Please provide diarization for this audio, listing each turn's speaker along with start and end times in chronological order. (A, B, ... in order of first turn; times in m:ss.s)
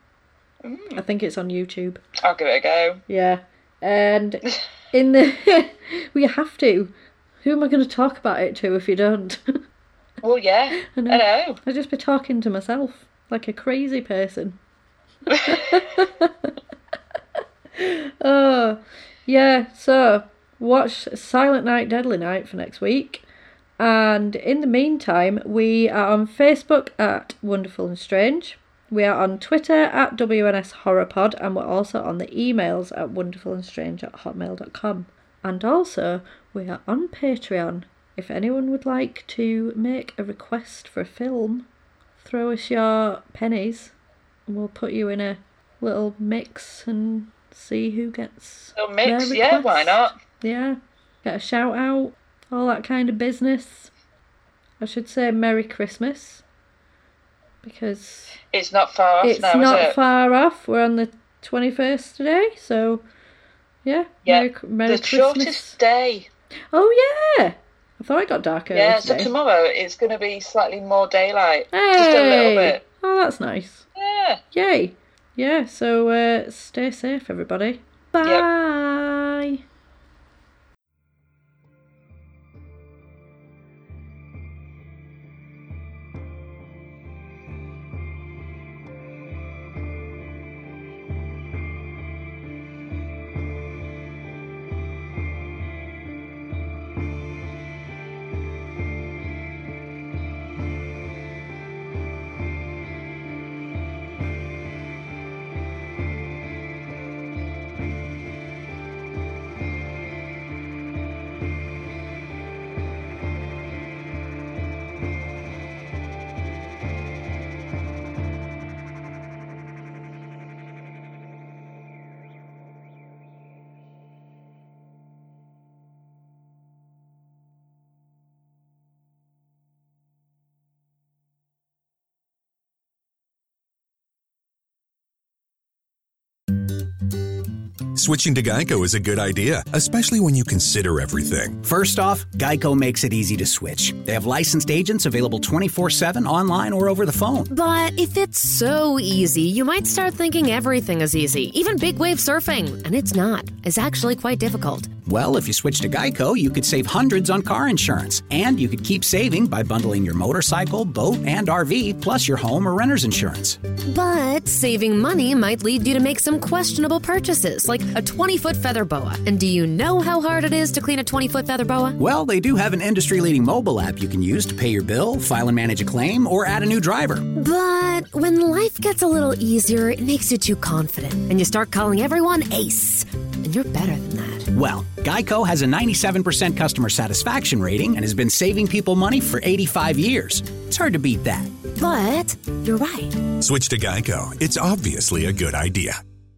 0:00.6-0:01.0 A
0:00.9-0:02.0 B
0:02.2-0:03.0 A
0:03.1-0:06.9 B
0:07.4-0:09.4 B
0:10.2-0:11.6 A
0:10.8-0:14.6 B
0:15.3-0:15.8 A
0:15.4-0:16.5 B
0:17.8-0:23.2 B
0:23.8-0:41.7 B
0:42.2-0:43.9 B
0:44.5-0:53.9 B
0:48.8-0:50.2 A
0:54.8-0:56.4 B
0:57.6-0:58.4 B
0:58.5-1:00.0 A
0:59.2-1:03.0 B
1:03.8-1:05.8 B
1:04.2-1:06.3 A
1:06.7-1:09.3 B
1:08.7-1:12.8 A
1:11.7-1:13.9 B
1:14.0-1:14.4 A
1:14.5-1:19.6 B
1:18.2-1:18.5 A
2:18.0-2:21.6 C
2:21.6-2:27.5 D
2:27.5-2:34.9 E
2:35.0-2:43.6 D
2:43.9-2:52.0 E
2:52.0-2:57.2 D
2:57.4-3:04.5 E
3:04.5-3:11.5 D
3:11.8-3:13.2 E
3:13.4-3:16.0 C